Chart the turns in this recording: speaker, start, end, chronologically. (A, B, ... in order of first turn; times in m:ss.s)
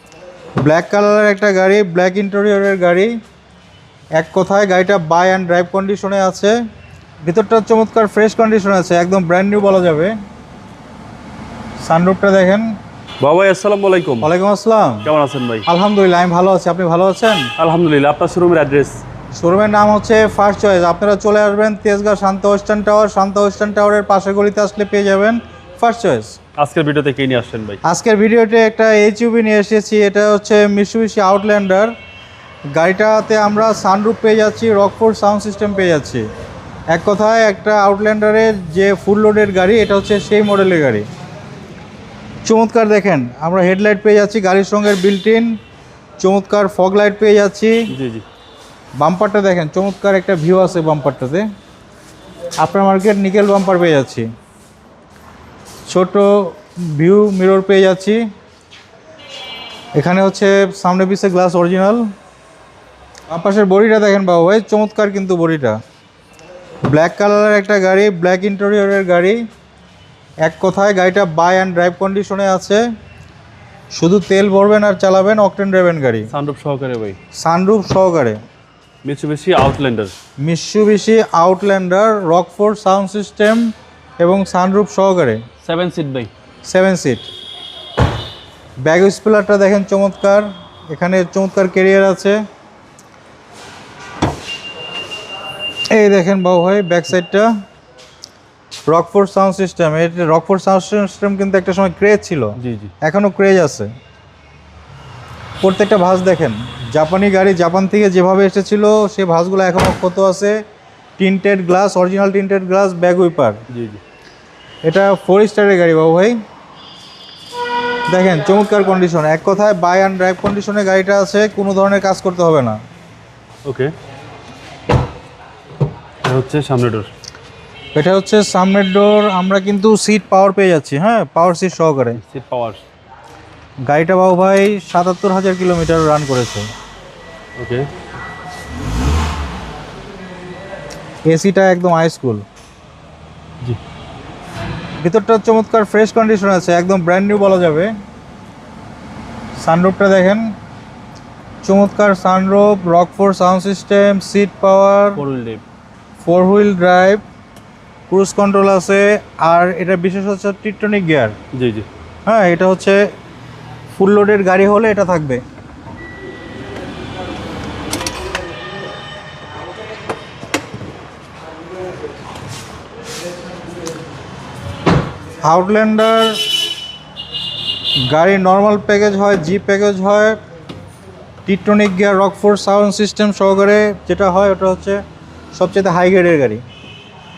0:00.6-0:03.1 A
0:04.2-0:06.6 A
0:07.2-0:10.1 A
0:11.8-0:12.7 A
0:13.2-0:14.3 B
0:14.2-0:15.1 A
0:15.0-0:15.7 B
0:15.7-0:17.5 A
0:17.6-0:19.0 B
0:19.3-0:26.4 A
0:26.6-0:27.8 B
0:27.8-0:31.9 A
0:32.7-0:36.2 A
0:36.9-0:41.1 A
0:42.4-0:45.6 A
0:46.2-0:47.9 A
0:47.9-0:48.2 B
0:49.0-0:51.4 A
0:52.6-0:54.3 A
0:55.9-0:58.2 A
1:00.0-1:02.0 A
1:03.3-1:05.8 A
1:06.9-1:09.4 A
1:10.4-1:12.8 A
1:14.0-1:16.3 A
1:16.3-1:17.2 B
1:17.4-1:18.4 A
1:19.0-1:20.1 B
1:20.4-1:25.4 A
1:25.6-1:26.3 B
1:26.7-1:27.3 A
1:28.8-1:32.4 A
1:35.9-1:37.5 A
1:38.9-1:43.9 A
1:42.6-1:42.9 B
1:45.6-1:50.6 A
1:51.2-1:53.6 A
1:53.7-1:54.0 B
1:54.8-1:56.4 A
1:58.1-2:02.8 A
2:03.6-2:03.9 B
2:06.2-2:07.1 B
2:07.9-2:12.2 A
2:12.1-2:12.8 B
2:13.9-2:16.7 A
2:17.6-2:17.9 B
2:21.3-2:22.4 A
2:25.0-2:27.9 A
2:29.6-2:30.5 A
2:31.6-2:35.2 A
2:35.2-2:35.6 B
2:36.2-2:37.2 A
2:38.1-2:41.4 A
2:41.5-2:41.9 B
2:42.2-2:43.0 A
2:43.9-2:45.4 A
2:55.4-2:56.6 A
2:58.1-3:00.4 A
3:01.4-3:05.0 A
3:05.5-3:06.6 A